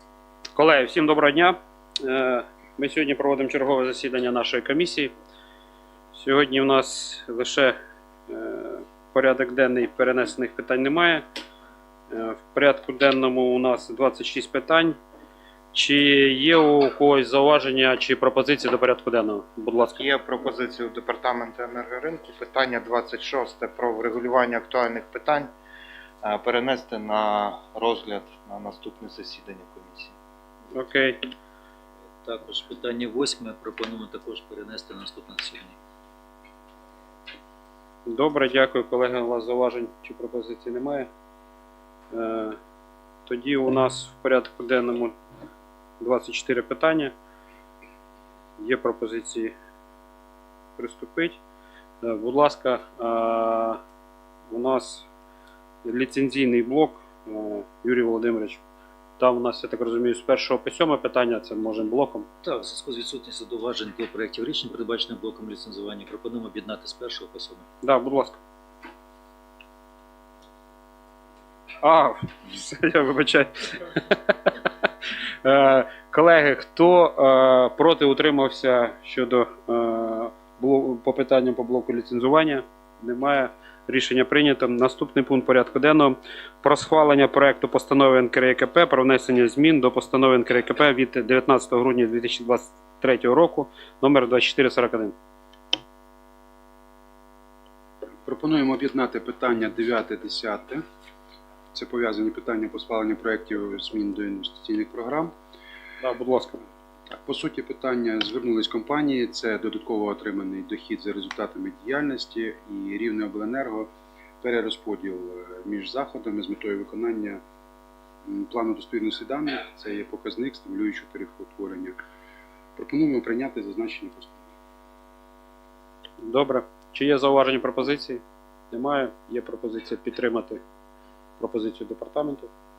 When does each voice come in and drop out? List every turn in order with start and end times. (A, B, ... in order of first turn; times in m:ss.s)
0:00.5-0:05.1 A
0:06.1-0:07.8 A
0:08.3-0:11.2 A
0:12.1-0:15.0 A
0:15.7-0:20.0 A
0:19.9-0:25.5 B
0:26.2-0:30.1 B
0:30.7-0:31.3 A
0:32.2-0:35.8 C
0:38.0-0:41.1 A
0:42.1-0:42.6 A
0:43.2-0:45.1 A
0:46.0-0:47.1 A
0:48.6-0:49.5 A
0:50.8-0:51.4 A
0:52.0-0:53.8 A
0:54.5-0:55.0 A
0:55.8-0:58.6 A
0:59.2-1:02.3 A
1:02.4-1:07.6 C
1:07.8-1:08.4 A
1:11.8-1:14.3 A
1:15.4-1:35.1 A
1:38.2-1:40.8 D
1:41.7-1:45.3 D
1:46.0-1:46.6 A
1:47.1-1:53.9 D
1:54.4-1:57.4 D
1:58.2-2:02.0 D
2:02.8-2:04.4 D
2:06.2-2:10.6 A
2:11.4-2:12.5 A